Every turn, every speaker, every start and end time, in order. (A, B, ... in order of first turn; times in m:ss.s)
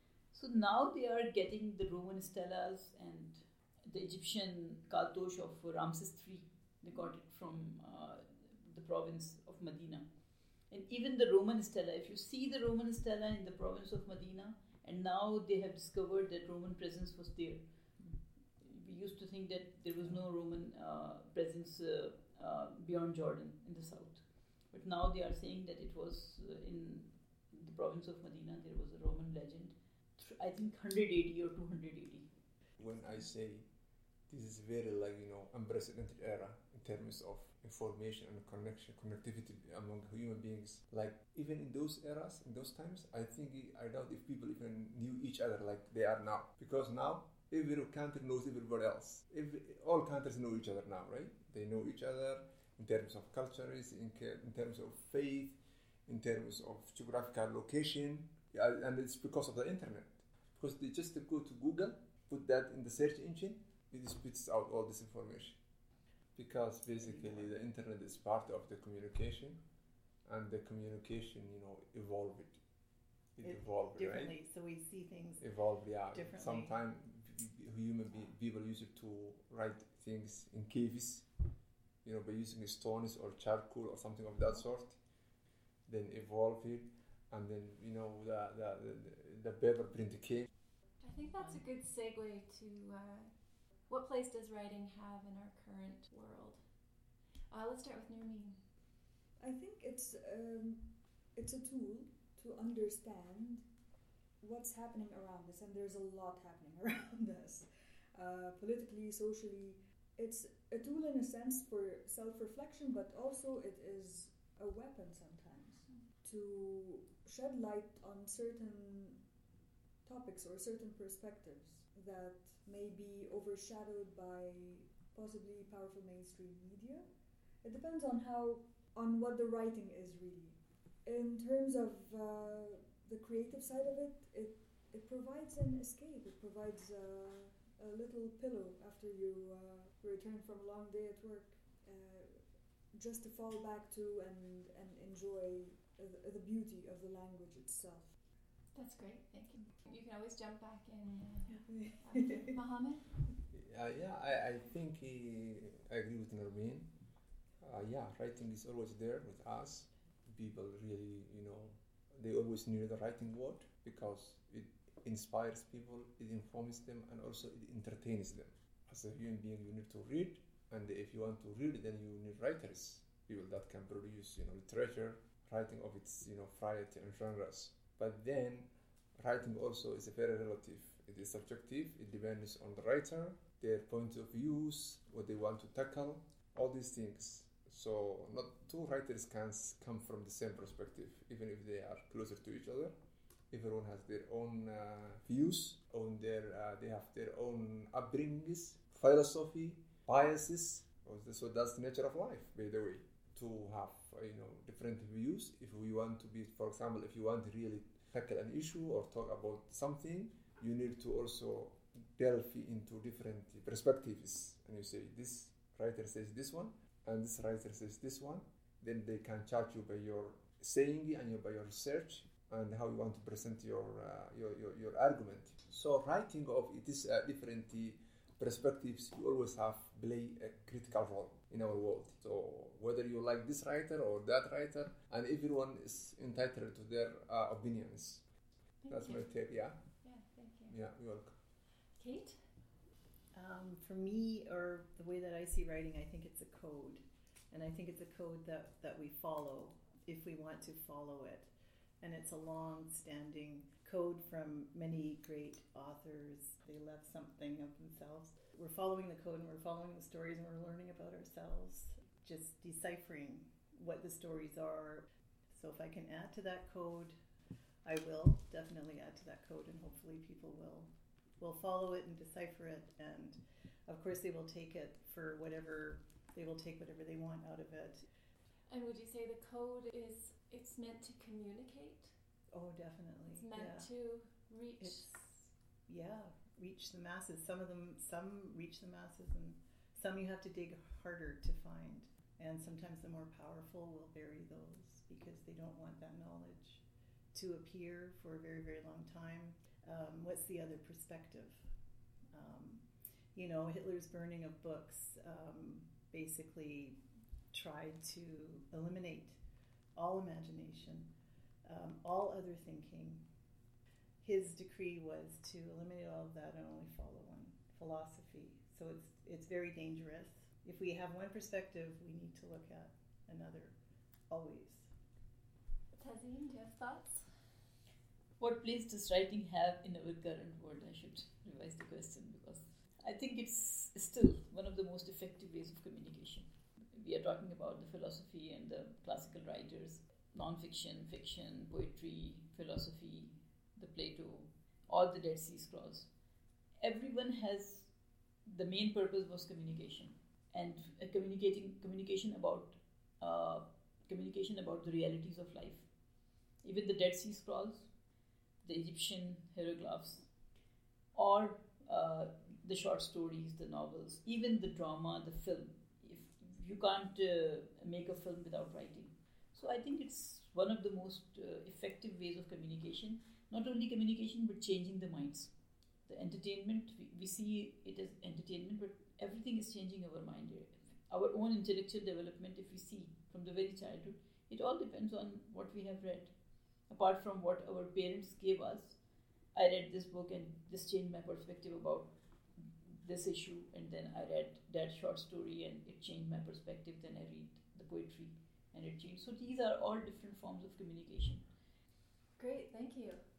0:00.3-0:10.1 A
0:10.7-0:17.6 A
0:18.6-0:32.3 A
0:32.8-0:33.7 B
0:34.3-1:05.6 B
1:06.4-1:09.6 B
1:07.0-1:07.5 C
1:10.2-1:12.6 B
1:13.4-1:14.4 B
1:13.4-1:15.4 C
1:15.4-1:21.3 B
1:16.1-1:16.7 C
1:22.0-1:25.0 B
1:25.9-1:30.5 B
1:31.0-1:36.6 D
1:37.5-1:38.6 D
1:39.4-1:43.7 E
1:44.4-1:59.2 E
2:00.0-2:07.1 E
2:07.6-2:28.2 E
2:28.7-2:33.1 D
2:31.6-2:32.5 E
2:33.5-2:36.9 B
2:37.6-3:12.9 B
3:13.5-3:58.2 B
3:58.8-3:59.3 D
3:58.9-3:59.9 B
4:00.0-4:00.7 D
4:00.7-4:01.4 B
4:01.9-4:02.4 D
4:03.3-4:11.5 C
4:12.0-4:27.2 C
4:27.8-4:30.9 C
4:31.4-4:38.0 C
4:38.7-4:42.1 D
4:42.5-4:43.9 C
4:43.3-4:45.1 D
4:44.8-4:56.8 C
4:57.3-5:01.6 C
5:02.3-5:02.8 C
5:03.3-5:07.0 C
5:07.5-5:09.4 C
5:10.0-5:11.1 C
5:11.6-5:13.2 C
5:14.2-5:23.7 C
5:24.3-5:24.9 C
5:25.9-5:27.3 D
5:28.4-5:46.1 A
5:46.8-5:47.9 A
5:48.4-5:55.9 A
5:56.6-5:57.9 A
5:58.6-6:00.3 A
6:01.1-6:15.5 A
6:16.0-6:26.3 A
6:26.9-6:29.0 A
6:29.5-6:41.4 A
6:42.4-6:43.2 D